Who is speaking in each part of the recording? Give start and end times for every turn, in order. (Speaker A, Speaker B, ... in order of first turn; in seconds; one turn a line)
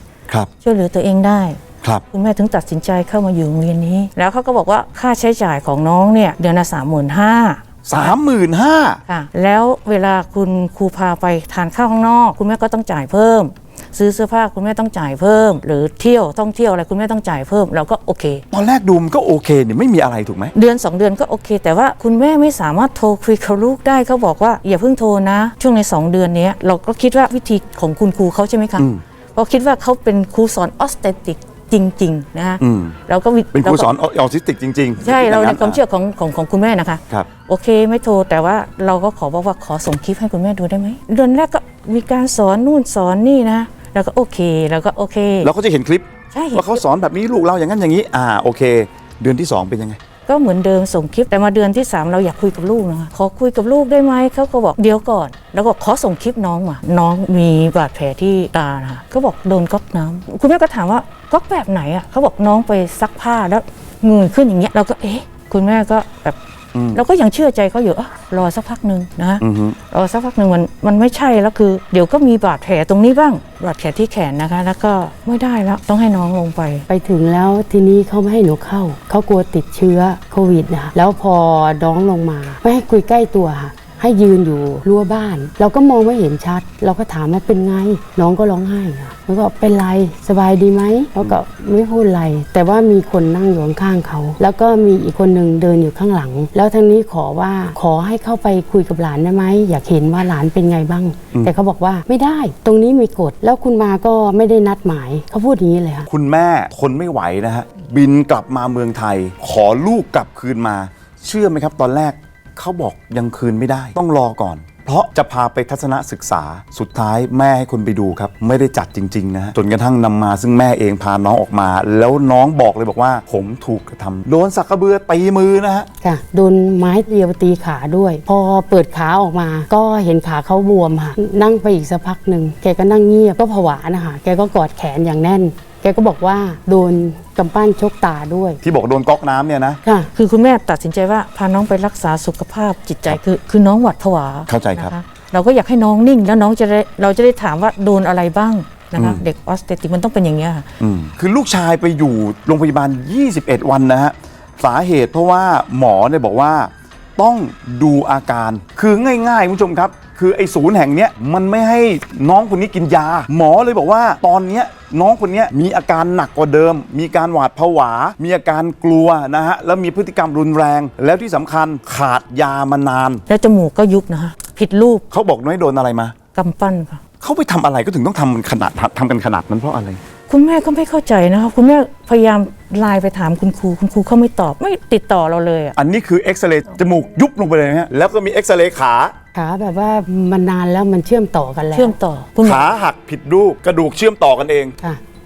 Speaker A: 0.6-8.2
Speaker B: 7.9-9.0
Speaker A: 9.1-18.4
Speaker B: 18.5-20.5
Speaker A: 20.5-33.9
Speaker B: 28.8-29.0
Speaker B: 32.6-33.0
Speaker B: 33.5-35.8
Speaker A: 35.0-45.5
Speaker B: 45.4-50.0
Speaker A: 46.3-46.8
Speaker A: 50.3-66.4
Speaker B: 66.7-67.0
Speaker A: 66.9-76.9
Speaker B: 69.4-69.8
Speaker C: 76.9-106.1
Speaker B: 106.1-125.9
Speaker C: 126.0-138.6
Speaker B: 138.6-139.8
Speaker A: 140.1-150.7
Speaker B: 144.5-144.9
Speaker B: 149.0-149.2
Speaker B: 150.8-173.2
Speaker A: 173.3-175.0
Speaker B: 175.1-176.2
Speaker A: 176.3-177.0
Speaker B: 177.2-180.0
Speaker A: 180.3-185.8
Speaker B: 185.8-189.2
Speaker C: 189.3-191.9
Speaker A: 191.7-192.7
Speaker B: 192.4-194.8